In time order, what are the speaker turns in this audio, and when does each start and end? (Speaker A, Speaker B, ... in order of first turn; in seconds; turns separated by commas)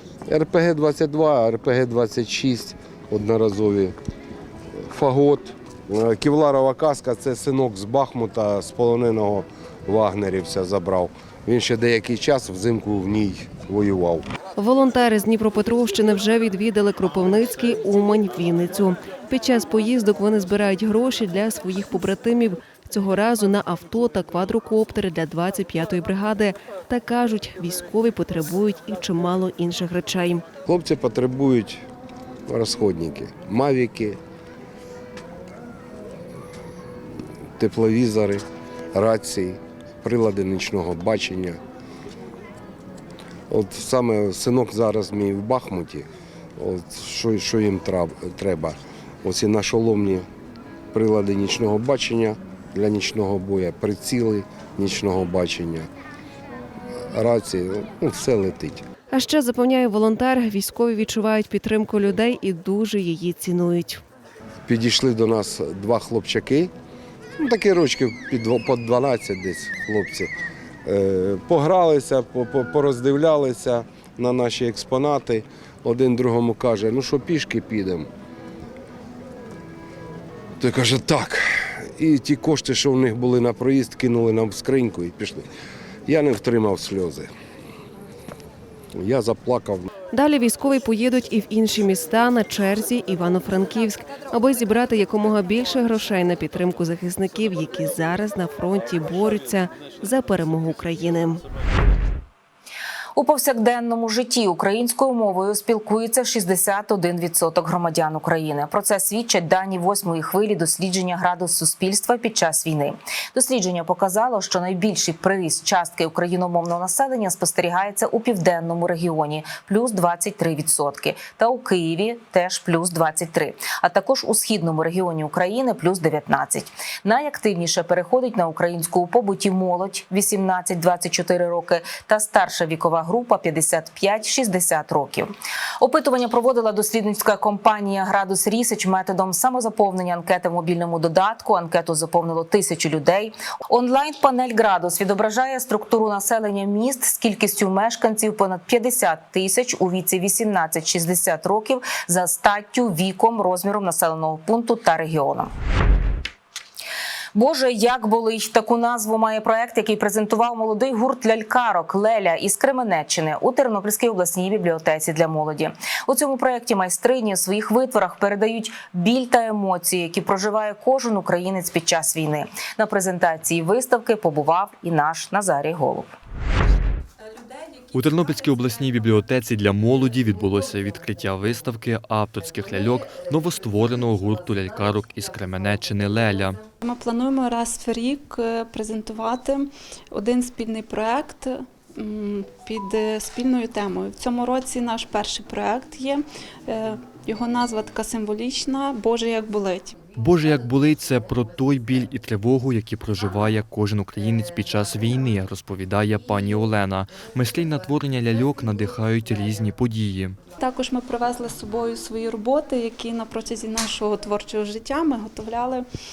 Speaker A: 0.3-3.9, Speaker A: 4.9-14.2, Speaker B: 14.6-30.4, Speaker A: 30.6-31.8, Speaker A: 32.5-34.2, Speaker A: 37.6-41.6, Speaker A: 43.5-50.2, Speaker A: 50.9-55.9, Speaker A: 57.1-58.8, Speaker B: 59.1-64.0, Speaker A: 64.7-66.7, Speaker A: 67.4-70.3, Speaker A: 70.8-78.1, Speaker A: 80.6-85.4, Speaker A: 86.1-87.3, Speaker A: 88.9-89.9, Speaker B: 90.1-101.4, Speaker C: 103.2-155.5, Speaker C: 157.3-176.1, Speaker D: 177.9-186.6, Speaker E: 186.8-200.0, Speaker D: 200.1-210.4, Speaker E: 210.6-215.8